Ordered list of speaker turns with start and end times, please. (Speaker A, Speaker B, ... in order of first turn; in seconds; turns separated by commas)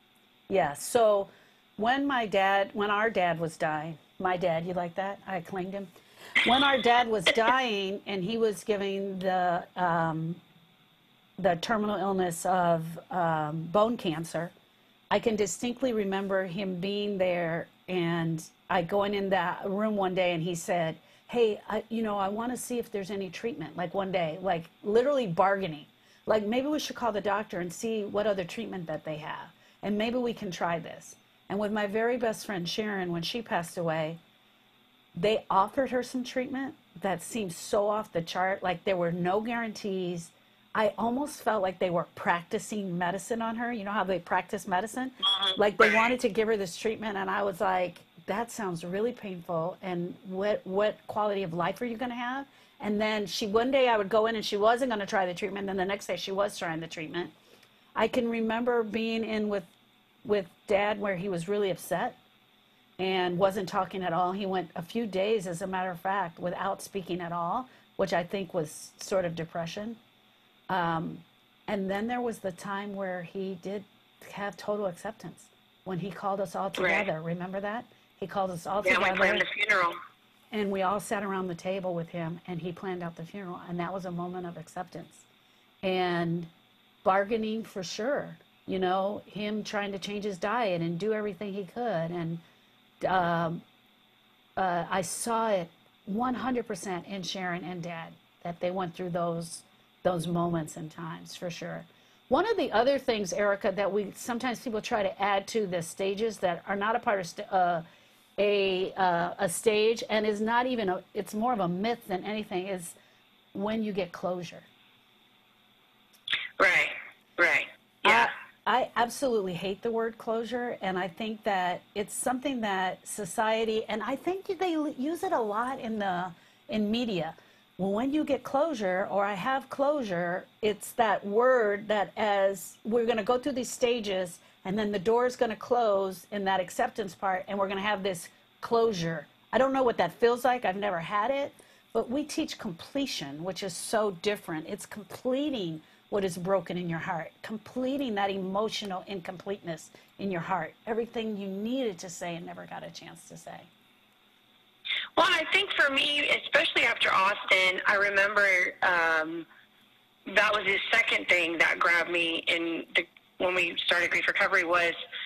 Speaker A: 0.5-5.9, Speaker A: 6.4-10.4, Speaker A: 11.4-14.5, Speaker A: 15.1-34.2, Speaker A: 35.2-57.3, Speaker B: 45.3-46.1, Speaker A: 58.0-59.7, Speaker A: 60.2-62.2, Speaker A: 63.0-70.0, Speaker A: 70.7-79.4, Speaker B: 76.8-77.1, Speaker B: 78.8-80.0, Speaker A: 80.5-85.2, Speaker A: 85.8-86.5, Speaker A: 87.0-92.4, Speaker A: 93.0-93.6, Speaker A: 94.6-107.8, Speaker A: 108.4-113.0, Speaker A: 113.5-114.7, Speaker B: 116.6-118.3, Speaker A: 118.0-153.7, Speaker B: 155.2-159.5, Speaker B: 160.3-164.9